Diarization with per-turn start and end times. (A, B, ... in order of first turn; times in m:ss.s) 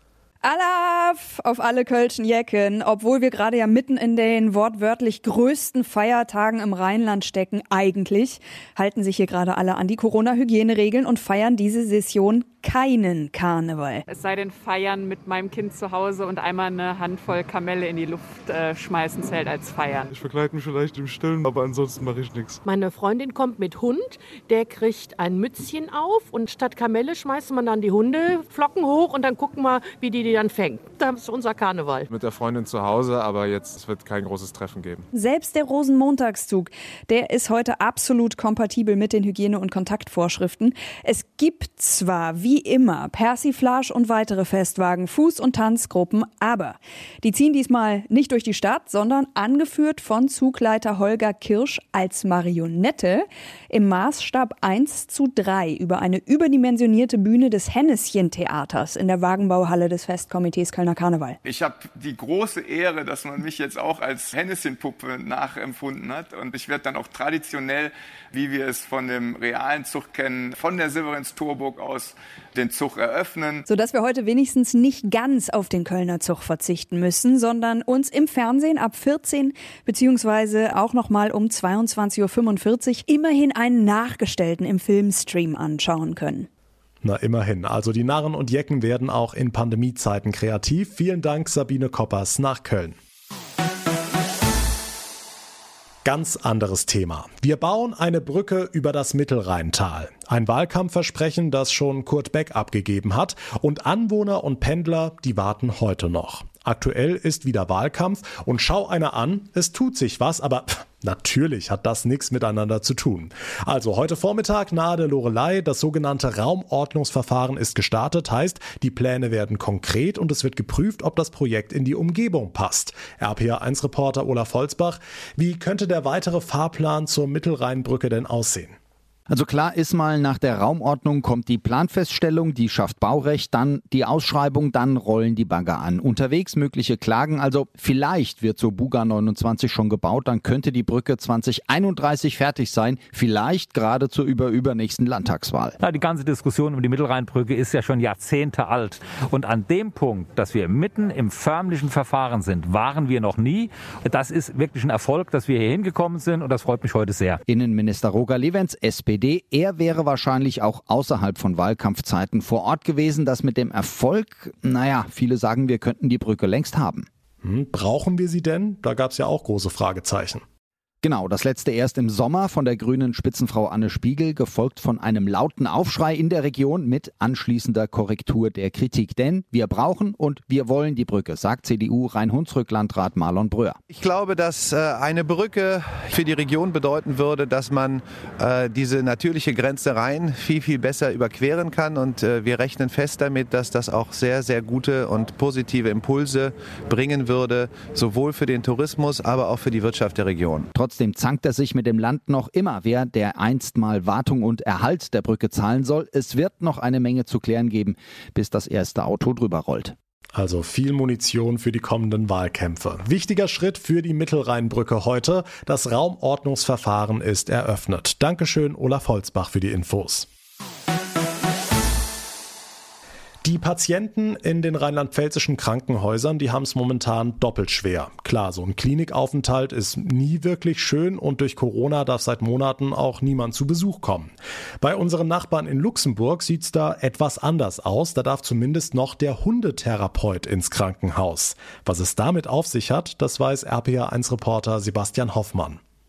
0:00.4-0:14.0 A
0:14.1-0:20.1 B
0:20.1-0:22.7 C
0:22.7-0:32.0 D
0:32.0-0:35.0 C
0:35.2-1:01.4 A
1:01.4-1:13.6 E
1:13.7-1:26.5 A
1:27.0-1:33.0 F
1:36.0-2:08.8 F
2:09.3-2:25.8 G
2:25.8-2:37.4 H
2:37.5-2:47.1 G
2:47.4-2:50.4 F
2:51.0-3:03.8 G
3:03.9-3:20.7 I
3:20.7-3:30.0 G
3:30.4-3:40.3 F
3:43.4-4:05.8 F